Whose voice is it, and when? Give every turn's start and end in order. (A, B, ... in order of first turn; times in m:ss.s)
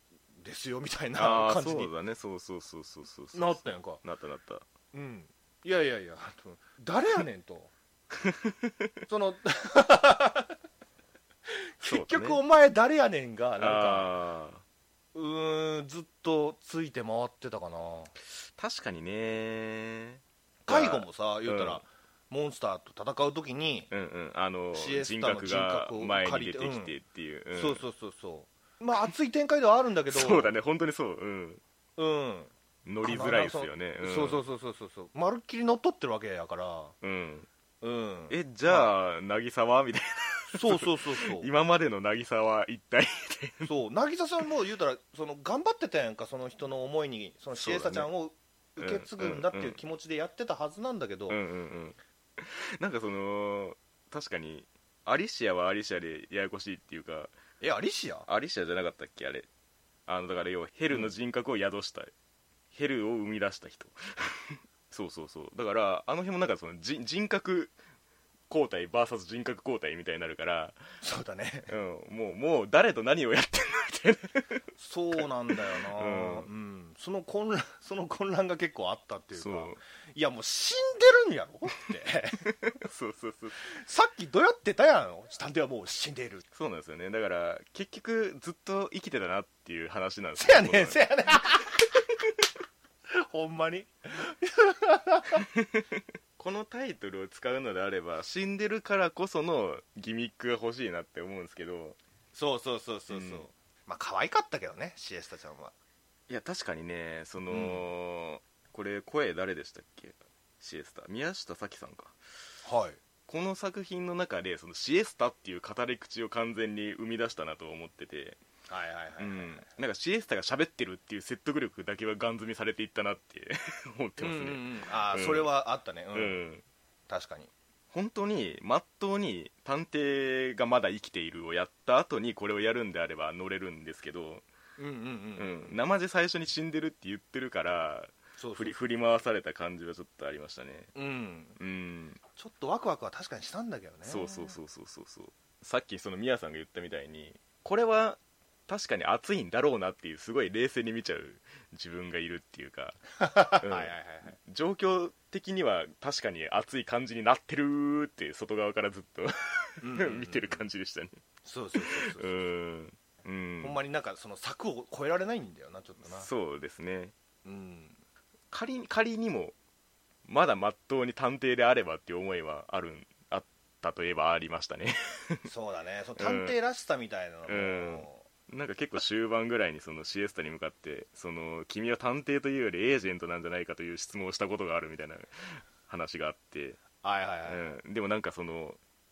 0:00.4-0:01.9 A
0:01.2-0:04.6 B
0:03.3-0:04.0 A
0:04.9-0:07.7 A
0:08.1-0:08.9 B
0:09.1-0:10.5 A
0:11.5-0:14.1 A
0:11.8-0:12.4 B
0:13.6-0:14.6 B
0:15.1-0:18.1 A
0:18.5-0:21.8 B
0:20.6-0:23.9 A
0:23.9-0:27.8 B
0:24.7-0:26.9 A
0:27.5-0:30.5 A
0:30.1-0:31.6 B
0:32.0-0:32.5 A
0:32.8-0:34.4 B
0:33.0-0:36.9 A
0:37.0-0:37.5 B
0:37.8-0:38.9 A
0:38.3-0:43.7 B
0:40.5-0:41.5 A
0:43.6-0:51.4 A
0:47.5-0:48.1 B
0:48.8-0:49.8 B
0:51.3-0:57.3 B
0:57.6-0:58.3 A
0:58.2-0:59.5 B
1:00.1-1:02.1 B
1:02.7-1:07.7 B
1:08.5-1:10.8 B
1:11.0-1:11.7 A
1:11.7-1:16.5 B
1:14.8-1:22.5 A
1:19.4-1:19.8 B
1:22.6-1:23.6 B
1:23.6-1:26.4 A
1:26.5-1:31.0 B
1:30.4-1:32.2 A
1:33.1-1:35.4 A
1:35.5-1:42.0 B
1:42.3-1:45.7 A
1:43.1-1:43.4 B
1:46.3-1:52.2 B
1:47.5-1:47.8 A
1:52.6-1:53.0 A
1:53.3-1:58.4 B
1:58.7-1:59.7 A
1:59.2-2:05.5 B
2:04.2-2:06.4 A
2:06.1-2:06.6 B
2:07.1-2:07.5 A
2:07.9-2:14.4 B
2:14.8-2:15.8 A
2:15.4-2:20.9 B
2:18.4-2:18.7 A
2:20.9-2:21.6 A
2:21.6-2:22.2 B
2:22.4-2:24.5 A
2:24.0-2:41.2 B
2:33.2-2:34.4 A
2:39.8-2:40.6 A
2:41.4-2:42.4 A
2:41.7-2:43.8 B
2:43.6-2:46.3 A
2:46.0-2:47.1 B
2:47.4-2:48.0 A
2:48.5-2:49.5 B
2:50.3-2:55.5 B
2:55.4-2:58.2 A
2:56.2-2:56.5 B
2:57.5-3:06.8 B
3:07.0-3:07.7 A
3:07.4-3:08.8 B